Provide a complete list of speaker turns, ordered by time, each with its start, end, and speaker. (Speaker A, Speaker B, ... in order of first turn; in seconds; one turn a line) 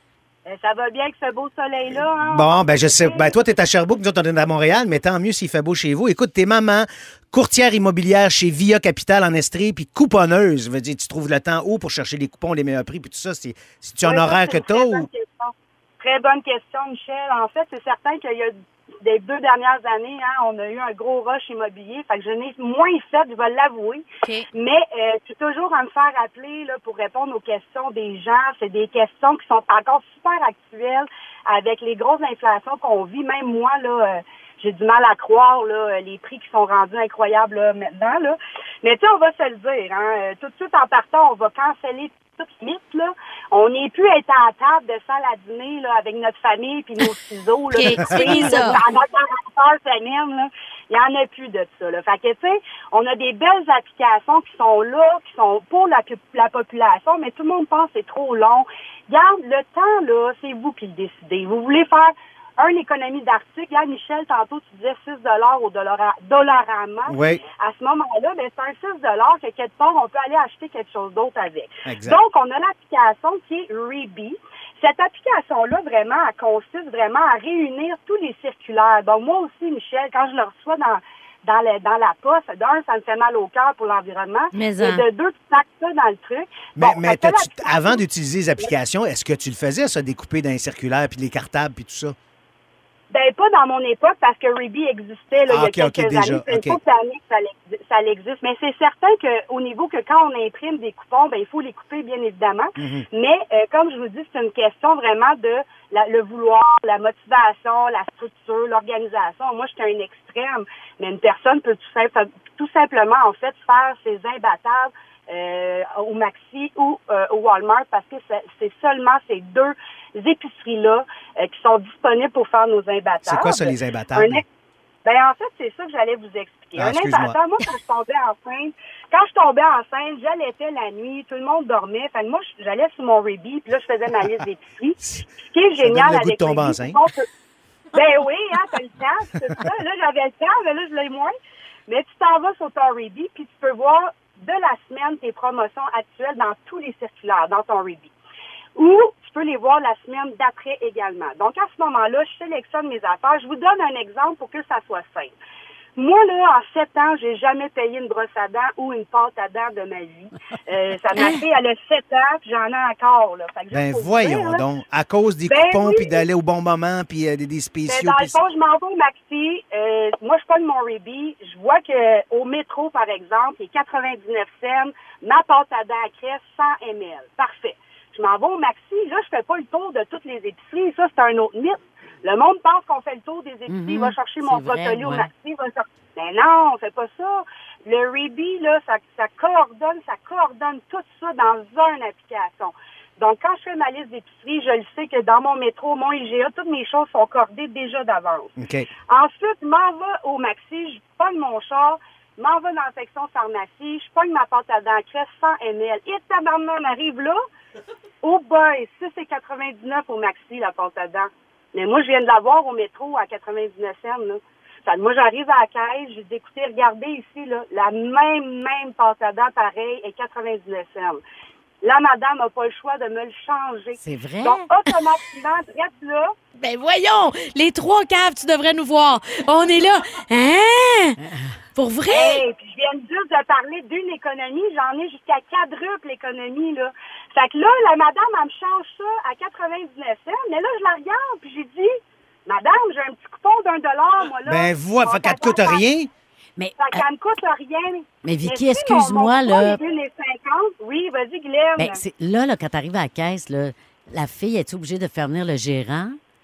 Speaker A: 0.5-3.4
Speaker B: 2.1-15.1
Speaker A: 14.0-88.0
Speaker C: 47.7-48.8
Speaker B: 67.1-67.4
Speaker B: 71.8-72.2
Speaker C: 84.5-85.0
Speaker B: 86.8-92.1
Speaker A: 93.1-124.4
Speaker B: 95.5-96.8
Speaker B: 102.8-103.0
Speaker B: 123.2-124.4
Speaker A: 125.0-137.3
Speaker B: 126.8-127.4
Speaker B: 135.8-137.0
Speaker A: 137.9-141.3
Speaker A: 141.9-148.1
Speaker A: 148.8-155.3
Speaker A: 156.0-164.6
Speaker C: 161.1-161.4
Speaker B: 163.7-168.4
Speaker A: 165.5-166.2
Speaker A: 167.9-198.5
Speaker D: 183.7-185.3
Speaker B: 198.6-198.9
Speaker A: 199.1-207.4
Speaker A: 208.2-221.2
Speaker A: 221.8-226.3
Speaker D: 224.0-224.7
Speaker C: 226.6-231.2
Speaker D: 231.2-231.5
Speaker C: 231.8-232.4
Speaker A: 232.1-241.9
Speaker A: 242.5-245.8
Speaker B: 244.4-246.1
Speaker D: 246.6-247.0
Speaker A: 246.8-252.0
Speaker D: 248.2-249.8
Speaker D: 251.8-256.2